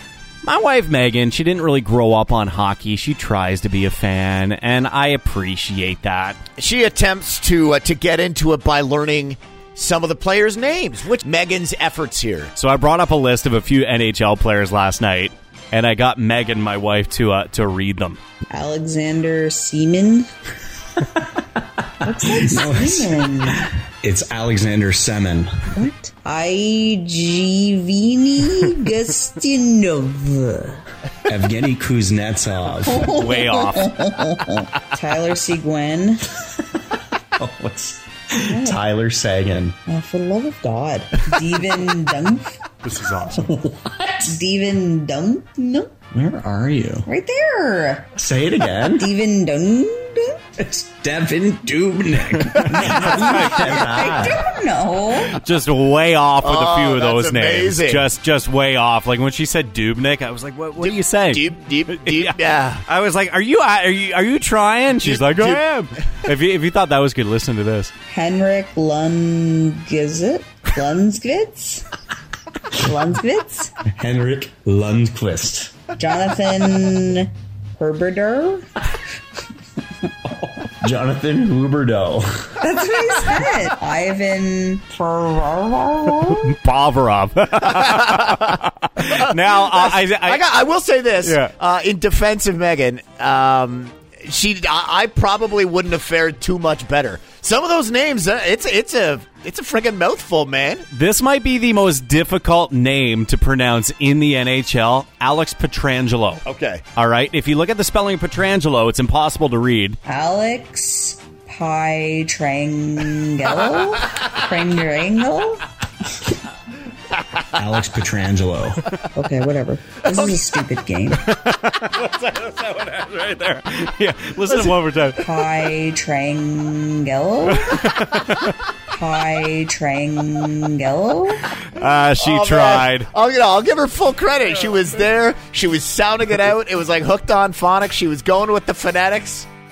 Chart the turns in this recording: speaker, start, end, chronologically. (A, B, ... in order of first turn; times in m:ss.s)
0:00.4-0:06.4 A
0:06.6-0:12.5 B
0:12.6-0:18.2 A
0:18.5-0:20.3 C
0:21.4-0:25.7 D
0:22.0-0:23.7 C
0:25.7-0:30.8 C
0:31.2-0:33.1 D
0:32.9-0:36.3 C
0:33.0-0:34.0 A
0:37.4-0:39.8 D
0:38.5-0:38.8 C
0:39.9-0:42.5 C
0:42.8-0:43.4 A
0:43.3-0:44.3 D
0:44.3-0:45.9 C
0:46.1-0:47.1 D
0:47.0-0:48.1 C
0:48.2-0:49.1 D
0:49.0-0:50.5 C
0:50.6-0:54.4 D
0:52.7-0:55.4 C
0:53.2-0:53.6 A
0:55.1-1:07.9 A
0:56.4-0:58.1 B
1:00.8-1:02.8 B
1:05.0-1:05.6 B
1:08.1-1:11.9 C
1:12.7-1:13.7 C
1:13.9-1:15.8 D
1:16.0-1:18.7 C
1:20.3-1:22.6 D
1:22.6-1:26.5 C
1:26.2-1:30.4 A
1:27.8-1:28.4 B
1:29.1-1:40.9 B
1:31.2-1:31.5 A
1:40.9-1:46.4 A
1:46.4-1:46.8 B
1:47.0-1:50.0 A
1:50.1-1:55.6 C
1:57.5-1:58.8 D
1:59.1-2:01.2 C
2:01.1-2:05.3 A
2:05.2-2:07.9 C
2:07.5-2:08.6 A
2:08.9-2:11.5 C
2:11.7-2:13.1 A
2:12.2-2:19.4 B